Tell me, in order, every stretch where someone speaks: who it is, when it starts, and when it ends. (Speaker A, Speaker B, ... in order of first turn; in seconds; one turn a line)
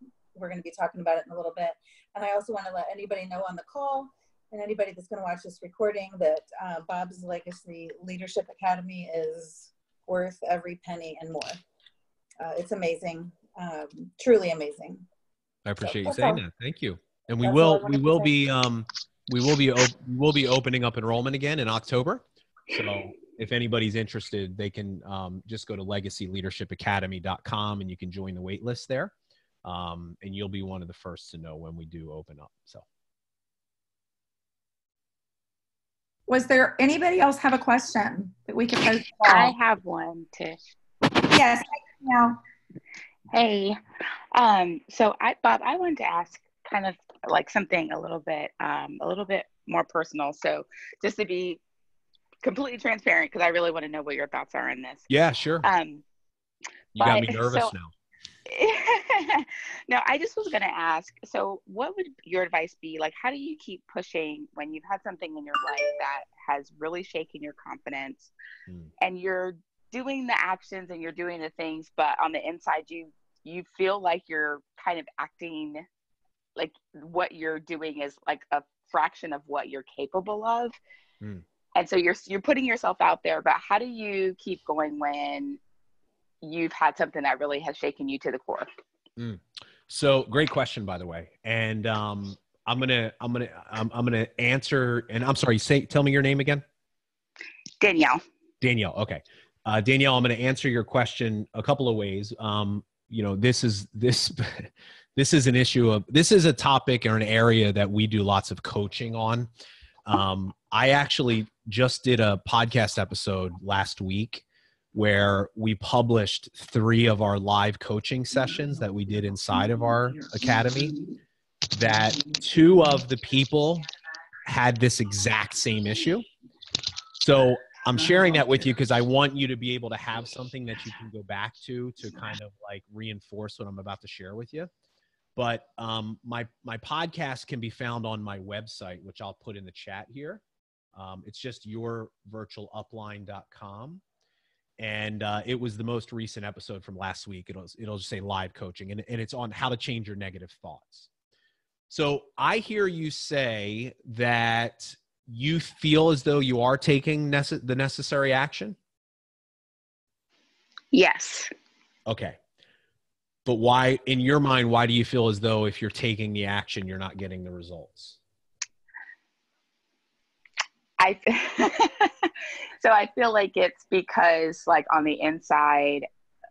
Speaker A: 0.3-11.6
Speaker A: 12.4-15.1
Speaker B: 15.7-29.1
Speaker A: 15.8-16.4
Speaker A: 17.4-18.3
Speaker B: 29.6-32.9
Speaker C: 36.3-39.5
Speaker D: 39.2-40.6
Speaker C: 41.3-42.4
Speaker D: 43.3-43.8
Speaker D: 44.3-51.6
Speaker D: 52.4-55.1
Speaker B: 55.1-55.6
Speaker D: 55.6-56.0
Speaker B: 57.0-57.9
Speaker D: 57.0-57.7
Speaker D: 58.5-68.3
Speaker D: 69.0-75.8
Speaker D: 76.6-80.8
Speaker D: 81.8-85.6
Speaker D: 86.4-88.7
Speaker B: 89.2-96.6
Speaker D: 97.8-98.2
Speaker B: 98.6-109.5
Speaker B: 110.1-121.0
Speaker B: 121.7-123.8
Speaker B: 124.5-126.2
Speaker B: 127.2-134.7
Speaker B: 135.4-140.4
Speaker B: 140.9-144.0
Speaker B: 144.8-151.1
Speaker B: 151.9-158.8
Speaker D: 160.9-161.5
Speaker B: 162.1-162.4
Speaker B: 163.5-168.2
Speaker D: 171.0-176.1